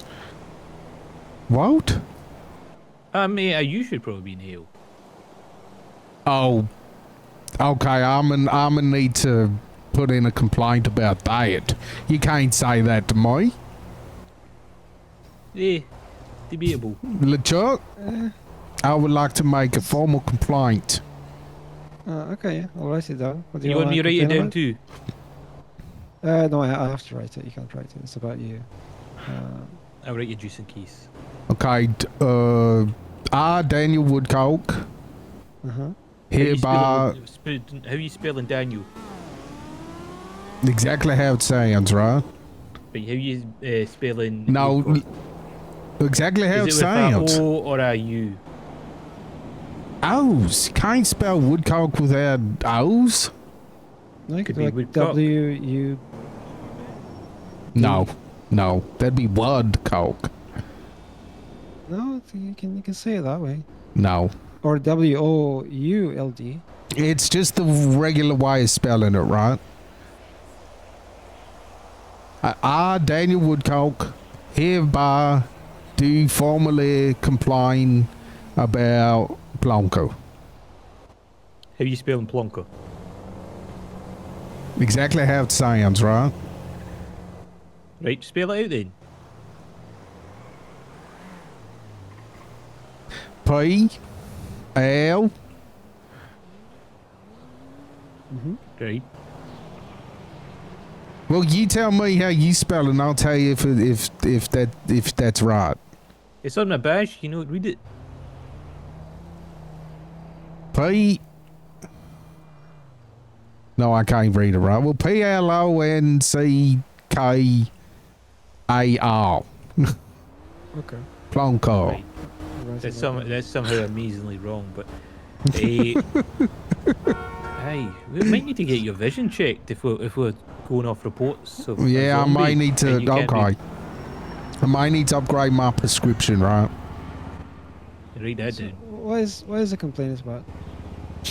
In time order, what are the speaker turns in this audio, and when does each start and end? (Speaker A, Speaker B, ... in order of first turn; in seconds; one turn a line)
Speaker A: 1.5-2.0
Speaker B: 3.1-4.7
Speaker A: 6.2-6.7
Speaker A: 7.6-13.5
Speaker B: 15.5-15.9
Speaker B: 16.5-17.0
Speaker A: 17.0-17.8
Speaker C: 18.0-18.3
Speaker A: 18.8-21.0
Speaker C: 22.1-24.5
Speaker B: 23.6-24.8
Speaker C: 26.2-28.7
Speaker C: 29.2-29.8
Speaker B: 30.0-31.1
Speaker A: 31.5-34.9
Speaker C: 35.6-35.9
Speaker A: 36.3-37.2
Speaker B: 36.4-38.9
Speaker A: 40.6-42.2
Speaker B: 42.9-45.0
Speaker A: 44.5-45.0
Speaker A: 46.0-47.4
Speaker B: 46.5-48.4
Speaker A: 50.0-53.3
Speaker C: 54.3-56.0
Speaker B: 54.5-55.3
Speaker C: 57.7-58.1
Speaker A: 57.7-60.3
Speaker C: 61.9-63.6
Speaker A: 64.0-64.3
Speaker C: 64.6-66.6
Speaker A: 67.0-69.6
Speaker A: 72.4-80.1
Speaker B: 81.8-82.7
Speaker A: 84.8-86.3
Speaker B: 88.0-88.9
Speaker A: 93.4-94.0
Speaker A: 94.8-95.3
Speaker C: 98.3-98.6
Speaker B: 98.8-99.1
Speaker A: 101.3-105.8
Speaker B: 106.4-107.8
Speaker A: 110.7-111.2
Speaker A: 113.8-117.7
Speaker A: 118.7-119.9
Speaker C: 120.7-121.0
Speaker A: 121.3-122.0
Speaker C: 122.5-123.3
Speaker B: 122.8-124.9
Speaker B: 125.5-126.0
Speaker A: 125.5-126.9
Speaker B: 127.6-133.5
Speaker A: 131.8-133.6
Speaker A: 134.6-136.7
Speaker B: 138.2-138.8
Speaker C: 138.5-140.5